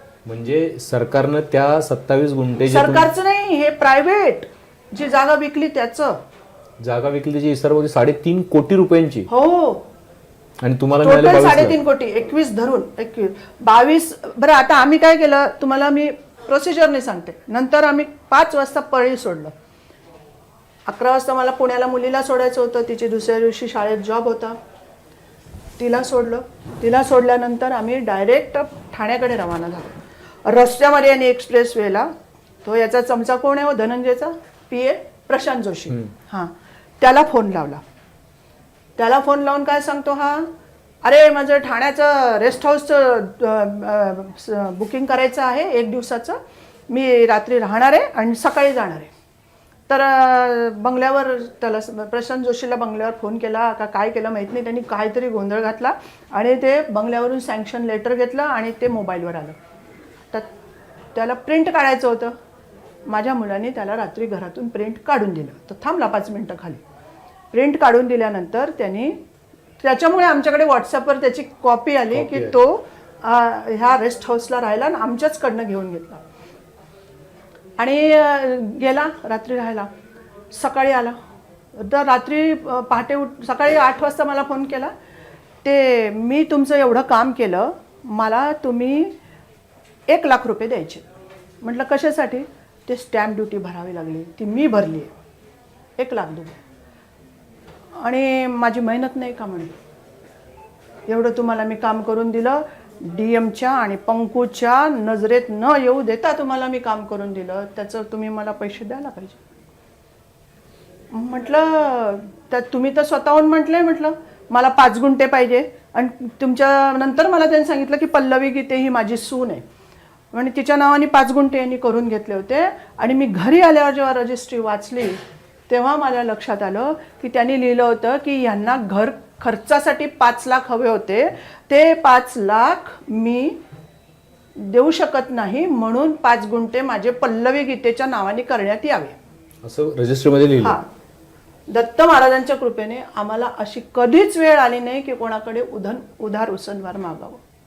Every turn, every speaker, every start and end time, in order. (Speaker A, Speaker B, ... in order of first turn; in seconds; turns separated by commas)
Speaker A: 0.2-3.1, Speaker B: 2.6-6.2, Speaker A: 6.8-9.3, Speaker B: 9.3-9.9, Speaker A: 10.6-11.8, Speaker B: 11.0-19.5, Speaker B: 20.9-24.6, Speaker B: 25.8-32.1, Speaker B: 32.6-37.8, Speaker B: 39.0-40.5, Speaker B: 41.0-46.4, Speaker B: 46.9-49.1, Speaker B: 49.9-59.5, Speaker B: 61.1-62.3, Speaker B: 63.1-66.8, Speaker B: 67.5-69.2, Speaker B: 69.8-76.2, Speaker A: 72.1-72.6, Speaker B: 77.8-79.9, Speaker B: 80.5-81.2, Speaker B: 81.7-84.9, Speaker B: 85.6-89.1, Speaker B: 90.1-91.0, Speaker B: 91.6-95.1, Speaker B: 96.0-96.6, Speaker B: 98.0-99.7, Speaker B: 101.1-109.4, Speaker B: 111.1-119.6, Speaker B: 120.3-133.6, Speaker B: 134.6-139.2, Speaker A: 139.6-140.8, Speaker B: 140.6-140.9, Speaker B: 141.7-147.4